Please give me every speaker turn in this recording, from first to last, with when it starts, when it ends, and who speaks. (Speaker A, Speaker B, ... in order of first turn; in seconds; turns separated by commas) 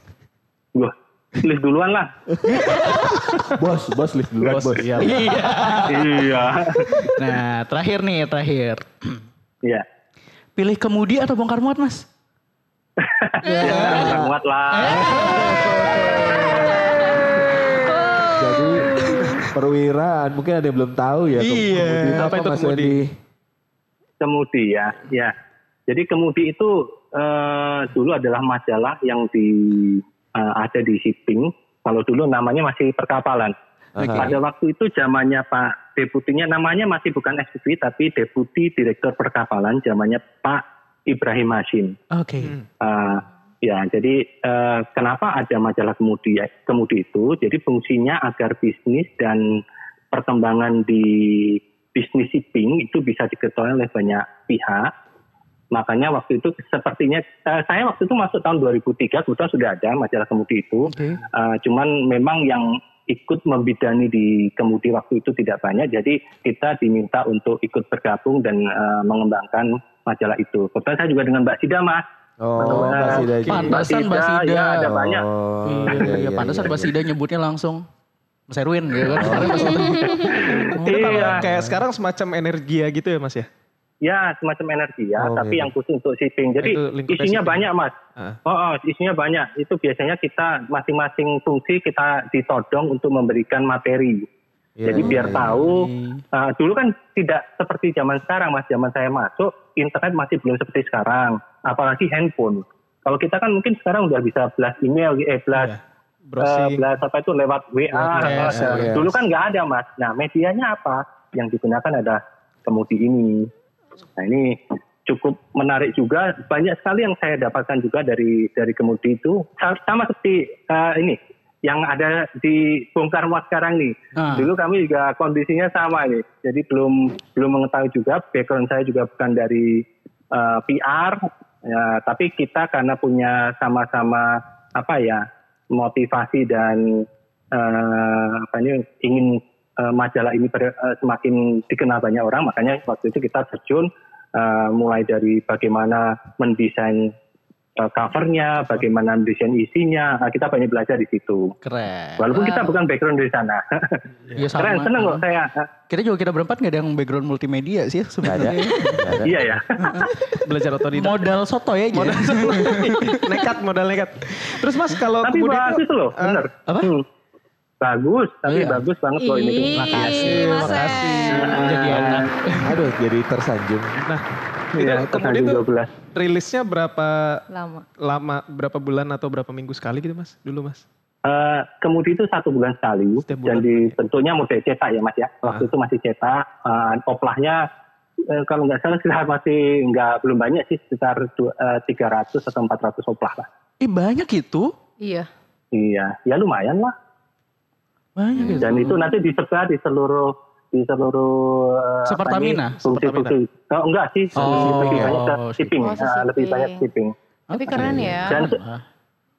Speaker A: 0.8-2.1, Speaker B: 2.5-3.6, Speaker C: 3.5-5.3, Speaker D: 4.5-5.3, Speaker B: 4.5-6.3, Speaker A: 5.9-7.1, Speaker B: 7.0-9.2, Speaker B: 10.6-12.1, Speaker A: 13.0-15.4, Speaker B: 13.5-14.2, Speaker C: 13.6-14.3, Speaker B: 14.7-16.8, Speaker C: 14.9-15.9, Speaker E: 15.5-19.5, Speaker C: 18.3-23.1, Speaker B: 21.4-22.2, Speaker D: 21.6-23.0, Speaker A: 24.2-25.3, Speaker A: 25.9-42.0, Speaker C: 34.0-34.4, Speaker B: 34.0-34.3, Speaker B: 42.1-42.6, Speaker D: 42.4-42.7, Speaker A: 42.8-49.4, Speaker A: 50.1-54.9, Speaker A: 55.7-72.0, Speaker B: 60.9-61.2, Speaker C: 72.4-73.8, Speaker A: 72.6-75.3, Speaker D: 72.6-73.8, Speaker B: 73.4-75.0, Speaker C: 75.0-76.9, Speaker B: 75.7-77.8, Speaker B: 78.5-81.4, Speaker C: 79.1-80.0, Speaker D: 79.2-79.6, Speaker A: 80.1-81.5, Speaker D: 80.3-83.5, Speaker A: 84.0-94.3, Speaker C: 85.2-85.7, Speaker D: 86.6-88.4, Speaker C: 94.8-95.8, Speaker A: 94.8-105.8, Speaker B: 95.6-96.2, Speaker D: 105.5-106.8, Speaker A: 106.4-113.5, Speaker D: 107.9-109.0, Speaker B: 108.1-109.0, Speaker C: 108.7-109.1, Speaker A: 114.2-147.1, Speaker B: 124.2-124.5, Speaker A: 147.8-151.5, Speaker B: 151.6-152.8, Speaker A: 152.2-154.0, Speaker B: 154.4-155.2, Speaker A: 154.6-155.7, Speaker B: 155.9-159.2, Speaker C: 158.2-159.4, Speaker A: 159.2-160.1, Speaker B: 159.8-160.1, Speaker D: 160.4-161.2, Speaker B: 160.9-163.1, Speaker D: 161.9-166.5, Speaker A: 165.2-167.1, Speaker B: 166.7-166.9, Speaker A: 167.8-170.0, Speaker B: 168.5-168.8, Speaker E: 169.2-171.7, Speaker B: 169.7-172.8, Speaker D: 169.9-172.3, Speaker A: 171.6-172.2, Speaker E: 172.3-172.6, Speaker C: 172.6-174.0, Speaker D: 174.0-177.4, Speaker A: 174.7-175.9, Speaker E: 177.5-177.9, Speaker D: 178.0-180.8, Speaker A: 181.2-187.7, Speaker D: 183.2-184.0, Speaker A: 188.3-193.5, Speaker B: 193.8-194.7, Speaker E: 195.0-195.3, Speaker A: 195.7-196.9, Speaker B: 198.2-199.0, Speaker E: 198.4-198.9, Speaker A: 198.6-207.1, Speaker B: 202.1-202.8, Speaker D: 202.8-203.4, Speaker C: 204.3-205.2, Speaker B: 204.4-205.8, Speaker E: 205.8-206.9, Speaker B: 207.5-208.8, Speaker E: 207.5-208.5, Speaker C: 207.7-208.4, Speaker A: 208.3-208.6